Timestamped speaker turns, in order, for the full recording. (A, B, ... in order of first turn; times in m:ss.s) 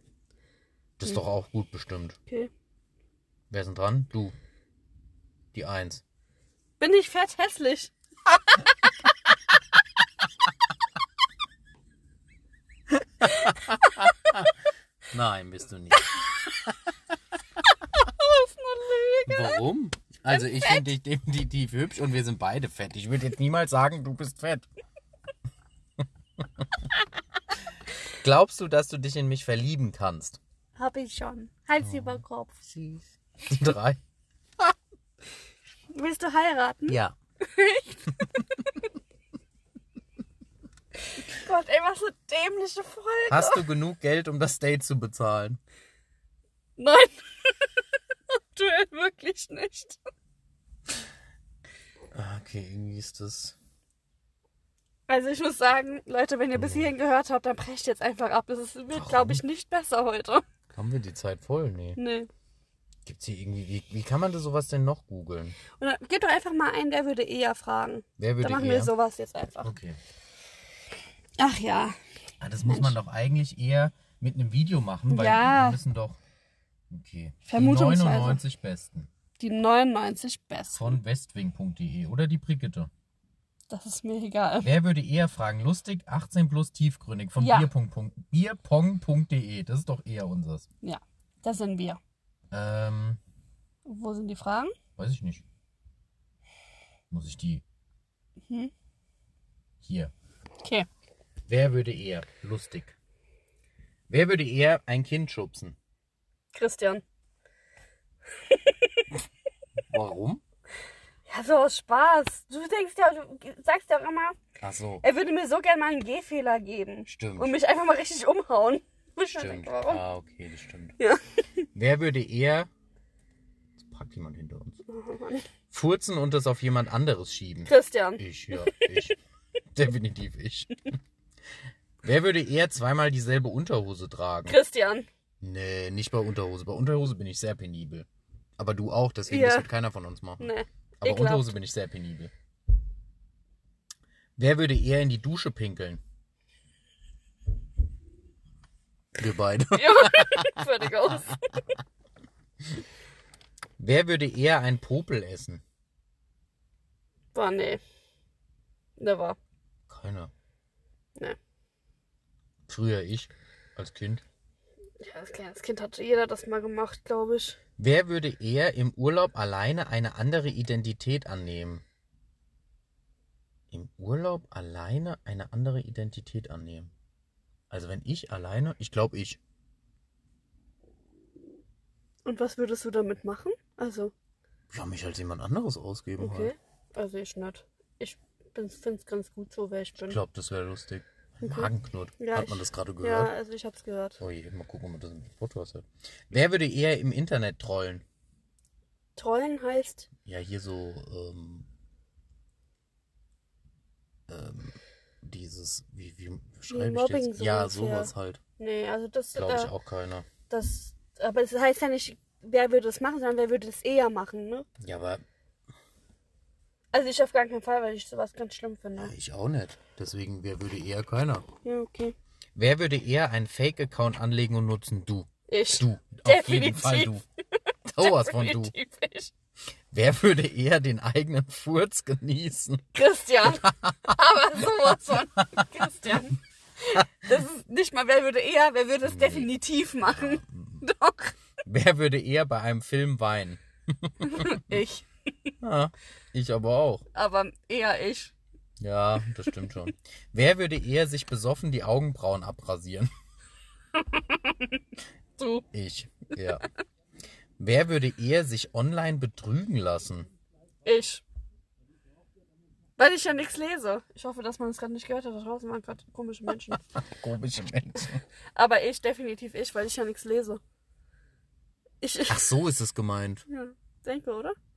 0:01.0-0:02.2 A
0:03.5-0:04.3 A
0:05.5-0:06.0 A
0:06.8-0:07.9 B
0:13.2-0:14.5 A
0:15.1-0:16.2 A
0:17.8-0:19.6 B
0:19.3-0:24.6 A
0:20.3-0:20.9 B
0:26.4-0:26.6 A
0:28.1-0:30.4 A
0:30.8-0:33.0 B
0:31.8-0:32.2 A
0:33.4-0:34.0 A
0:35.9-0:38.8 B
0:36.9-0:37.1 A
0:41.2-0:43.6 B
0:43.3-0:45.6 A
0:46.8-0:47.6 B
0:48.5-0:50.0 B
0:52.1-0:53.6 A
0:55.1-1:00.4 B
0:56.5-0:56.9 A
0:58.9-0:59.4 A
1:00.7-1:02.0 A
1:02.0-1:02.3 B
1:03.0-1:05.6 A
1:05.8-1:09.7 B
1:08.2-1:08.9 A
1:09.6-1:10.0 A
1:11.4-1:12.0 B
1:12.4-1:16.2 A
1:12.6-1:12.9 B
1:15.1-1:15.8 B
1:16.9-1:19.1 A
1:17.4-1:18.4 B
1:19.4-1:21.0 B
1:20.7-1:22.9 A
1:23.7-1:24.7 B
1:24.6-1:30.7 A
1:27.4-1:27.7 B
1:30.8-1:32.0 B
1:32.5-1:33.2 A
1:33.8-1:34.7 B
1:35.0-1:35.4 A
1:37.1-1:37.6 A
1:39.8-1:40.1 A
1:41.5-1:42.9 A
1:44.1-1:45.8 A
1:46.5-1:47.0 B
1:48.4-1:49.1 B
1:49.9-1:50.4 A
1:51.3-1:54.4 B
1:54.6-1:55.0 A
1:55.0-2:00.0 B
1:57.1-1:57.5 A
1:59.3-2:00.9 A
2:01.7-2:02.7 A
2:03.8-2:04.8 A
2:04.9-2:05.5 B
2:05.7-2:09.2 A
2:07.7-2:08.8 B
2:09.7-2:10.9 A
2:12.0-2:14.6 A
2:14.5-2:15.1 B
2:15.4-2:18.1 A
2:18.6-2:20.5 A
2:19.3-2:19.7 B
2:20.4-2:21.5 B
2:21.0-2:22.3 A
2:24.4-2:26.0 A
2:29.2-2:31.6 A
2:29.7-2:31.6 B
2:33.8-2:35.6 A
2:37.3-2:37.8 B
2:39.0-2:39.4 B
2:39.9-2:40.3 A
2:42.7-2:44.2 A
2:45.0-2:47.6 B
2:47.8-2:51.8 A
2:53.7-2:56.9 A
2:57.7-2:59.4 A
3:02.2-3:04.1 B
3:04.7-3:06.5 A
3:06.2-3:10.2 B
3:10.0-3:13.3 A
3:11.4-3:14.2 B
3:14.2-3:18.0 A
3:19.2-3:20.1 B
3:20.2-3:21.6 A
3:24.3-3:28.4 A
3:26.7-3:29.7 B
3:29.3-3:30.2 A
3:30.5-3:34.7 B
3:34.8-3:35.2 A
3:36.9-3:39.1 B
3:39.0-3:41.4 A
3:41.6-3:42.1 B
3:42.6-3:47.2 A
3:45.5-3:47.1 B
3:47.9-3:48.7 A
3:48.0-3:49.3 B
3:49.9-3:52.8 A
3:52.9-4:01.4 B
3:53.4-3:54.8 A
3:59.0-3:59.5 A
4:00.0-4:00.8 A
4:01.6-4:04.8 A
4:04.2-4:05.0 B
4:05.6-4:07.0 A
4:07.1-4:08.3 B
4:08.8-4:13.1 A
4:14.0-4:14.8 B
4:15.4-4:15.6 B
4:15.7-4:16.6 A
4:17.6-4:20.3 A
4:20.8-4:21.2 B
4:23.0-4:26.8 B
4:26.7-4:28.2 A
4:28.6-4:30.6 B
4:32.0-4:32.5 B
4:32.3-4:33.4 A
4:33.5-4:34.5 B